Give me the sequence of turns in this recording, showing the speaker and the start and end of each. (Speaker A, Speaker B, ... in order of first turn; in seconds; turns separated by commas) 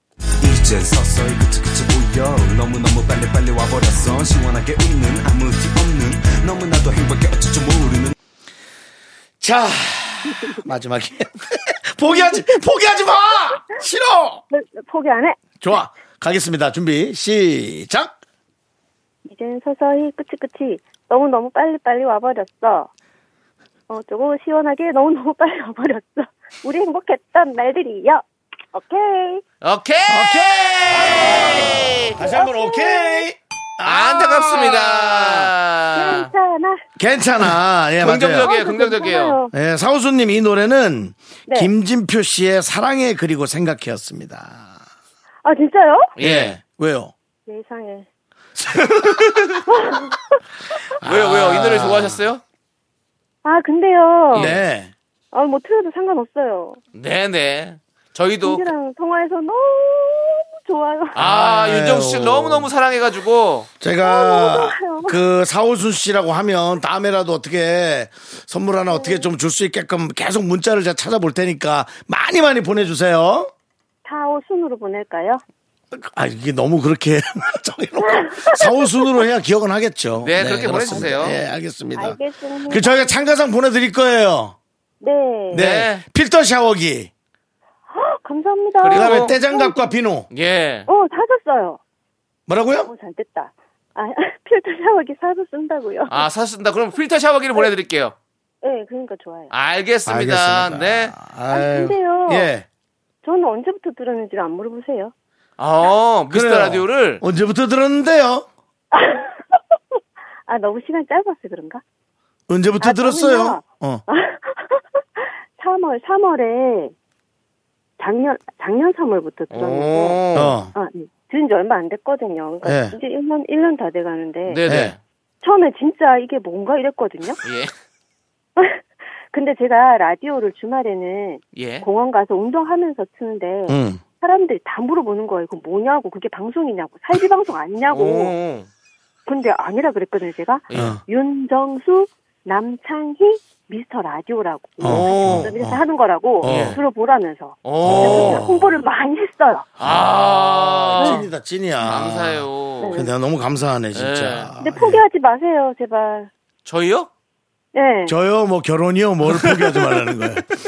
Speaker A: 0.4-8.1, Speaker B: 9.4-14.4, Speaker C: 12.1-12.7, Speaker C: 13.3-13.6, Speaker C: 14.5-15.4, Speaker B: 15.6-18.1, Speaker C: 19.2-22.9, Speaker C: 23.9-29.4, Speaker D: 29.6-32.2, Speaker B: 30.1-35.5, Speaker C: 32.2-33.3, Speaker D: 33.8-36.3, Speaker C: 35.9-36.8, Speaker B: 37.0-38.5, Speaker D: 38.0-39.4, Speaker C: 38.3-39.5, Speaker B: 39.5-44.8, Speaker C: 45.4-46.1, Speaker D: 46.2-46.6, Speaker B: 46.2-47.1, Speaker C: 47.5-48.1, Speaker B: 48.7-49.1, Speaker D: 48.7-49.6, Speaker C: 49.7-50.4, Speaker B: 51.0-52.2, Speaker D: 51.0-52.4, Speaker C: 53.4-54.5, Speaker D: 54.3-54.6, Speaker B: 54.3-54.9, Speaker C: 55.3-56.8, Speaker D: 56.9-58.7, Speaker C: 58.4-61.1, Speaker D: 61.1-63.7, Speaker B: 61.2-62.7, Speaker B: 63.8-73.5, Speaker C: 64.0-65.2, Speaker C: 68.9-69.3, Speaker C: 74.0-75.4, Speaker B: 75.9-84.5, Speaker C: 78.0-79.2, Speaker D: 80.2-81.4, Speaker C: 80.7-81.1, Speaker C: 81.9-83.1, Speaker C: 85.0-85.6, Speaker B: 85.5-87.1, Speaker D: 85.5-86.0, Speaker C: 87.9-90.0, Speaker D: 88.8-89.4, Speaker B: 88.9-90.3, Speaker D: 90.3-90.9, Speaker C: 90.9-91.8, Speaker B: 92.5-92.9, Speaker C: 92.8-96.2, Speaker D: 96.1-98.1, Speaker C: 98.6-99.5, Speaker D: 99.5-101.1, Speaker B: 100.0-102.7, Speaker C: 101.5-102.5, Speaker C: 103.2-105.1, Speaker D: 105.6-107.2, Speaker B: 106.3-108.5, Speaker C: 108.9-109.6, Speaker C: 110.5-111.8, Speaker B: 112.5-114.0, Speaker C: 112.8-116.9, Speaker C: 118.0-124.6, Speaker D: 119.5-120.6, Speaker B: 120.3-120.7, Speaker B: 122.6-123.0, Speaker D: 124.5-125.0, Speaker B: 124.7-124.9, Speaker C: 125.4-127.4, Speaker D: 127.4-127.7, Speaker C: 128.6-138.3, Speaker D: 131.5-131.8, Speaker B: 133.7-134.0, Speaker D: 137.9-138.7, Speaker C: 139.2-149.7, Speaker D: 140.7-141.0, Speaker B: 140.7-141.0, Speaker B: 144.8-145.8, Speaker D: 144.8-145.5, Speaker B: 146.4-146.8, Speaker D: 146.4-146.8, Speaker D: 147.6-148.4, Speaker B: 147.8-148.8, Speaker D: 149.8-151.2, Speaker B: 149.8-155.0, Speaker C: 151.0-151.2, Speaker D: 151.8-153.1, Speaker C: 152.8-153.1, Speaker D: 153.9-154.5, Speaker C: 154.6-156.3, Speaker D: 156.6-157.1, Speaker C: 157.7-158.2, Speaker B: 158.1-160.4